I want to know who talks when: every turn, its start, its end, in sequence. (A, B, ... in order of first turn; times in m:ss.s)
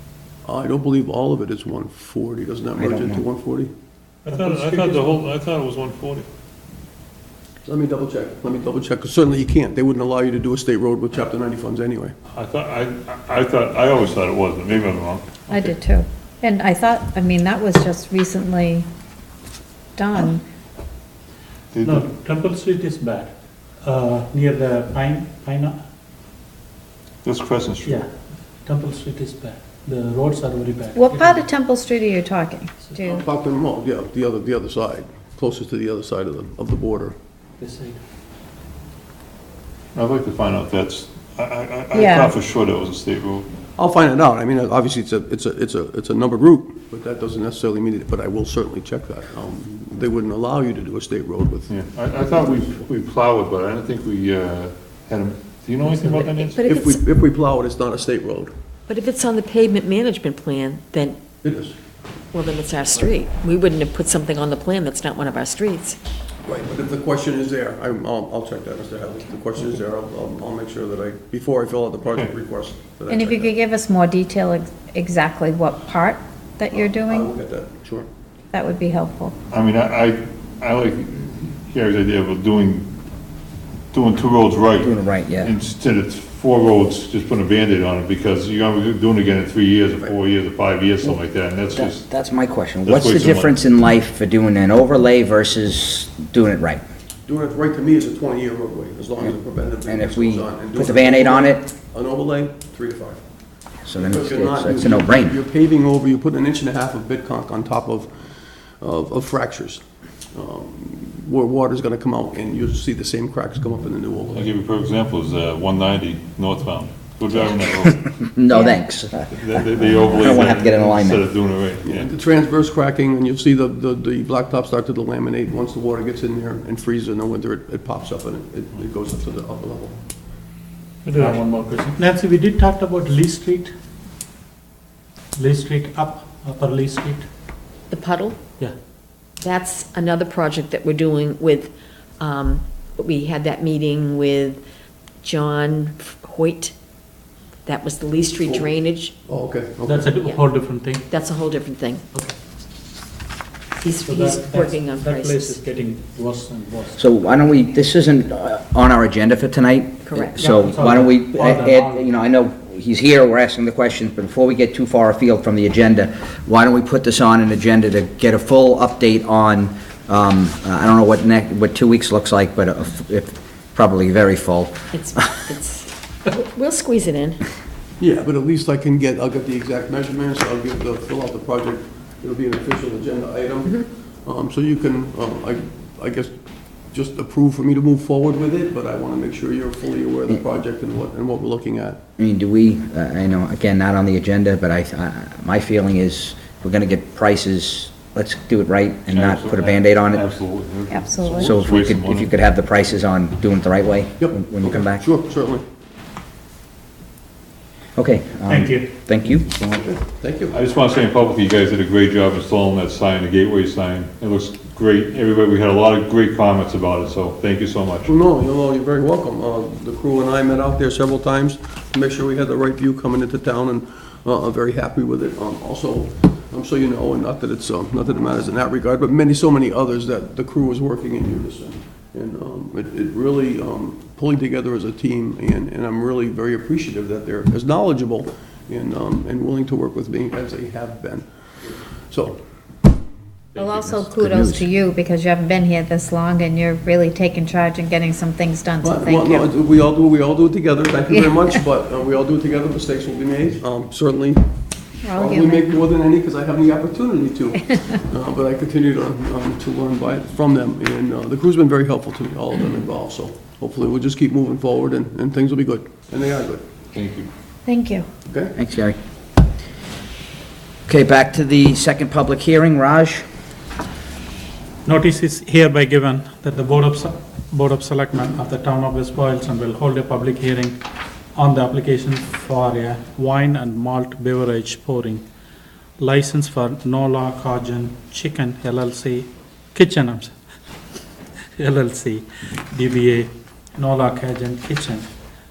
0:00.4-0:03.7 A
0:02.8-0:03.2 B
0:04.2-0:06.3 C
0:04.3-0:05.1 D
0:07.6-0:12.1 A
0:12.3-0:15.7 C
0:15.5-0:18.9 E
0:20.0-0:20.4 E
0:21.7-0:22.0 C
0:21.8-0:25.8 D
0:27.2-0:28.0 C
0:28.6-0:31.5 D
0:30.9-0:33.2 E
0:32.8-0:33.2 D
0:33.2-0:37.2 A
0:37.6-0:38.0 D
0:39.9-0:43.5 C
0:41.9-0:42.3 E
0:43.8-0:51.7 A
0:51.7-0:56.7 C
0:56.0-0:57.0 F
0:56.7-0:58.5 A
0:58.9-1:01.3 F
1:01.4-1:01.8 A
1:02.3-1:06.0 F
1:06.4-1:13.6 A
1:13.1-1:17.3 E
1:16.7-1:18.1 A
1:18.5-1:19.3 E
1:19.5-1:22.9 C
1:23.9-1:32.0 C
1:24.8-1:25.5 B
1:31.7-1:36.8 B
1:32.8-1:33.5 C
1:37.2-1:43.2 A
1:39.9-1:41.7 B
1:43.8-1:45.3 B
1:44.0-1:48.1 A
1:48.8-1:49.8 A
1:50.3-1:54.5 A
1:54.3-1:58.1 C
1:57.7-2:01.2 B
1:58.5-1:58.8 E
1:59.2-2:02.1 C
2:01.8-2:09.9 A
2:11.0-2:11.4 C
2:11.1-2:13.7 D
2:15.4-2:17.2 D
2:17.9-2:18.4 F
2:19.4-2:24.6 F
2:25.2-2:26.7 F
2:27.6-2:29.2 F
2:28.4-2:28.7 A
2:29.2-2:30.1 A
2:29.8-2:31.1 D
2:30.2-2:32.0 F
2:33.8-2:35.6 F
2:33.9-2:37.0 D
2:37.0-2:55.2 B
2:40.0-2:40.4 F
2:40.4-2:42.0 D
2:54.9-2:57.4 F
2:58.0-3:06.3 A
3:06.9-3:12.0 A
3:12.2-3:20.2 B
3:19.1-3:22.4 C
3:20.9-3:21.5 E
3:21.3-3:25.0 B
3:24.2-3:25.6 A
3:28.0-3:29.6 B
3:28.5-3:28.9 D
3:29.5-3:29.8 C
3:29.8-3:30.6 A
3:30.5-3:38.1 C
3:38.0-4:01.2 A
4:02.1-4:02.4 A
4:03.6-4:09.5 E
4:03.9-4:04.7 B
4:08.8-4:14.4 A
4:15.0-4:15.8 E
4:15.1-4:26.6 A
4:26.9-4:27.3 C
4:27.6-4:28.1 E
4:28.3-4:28.5 A
4:28.5-4:29.0 B
4:30.9-4:33.2 B
4:34.8-4:40.8 D
4:41.3-4:45.2 D
4:46.0-4:50.3 D
4:51.6-4:55.1 D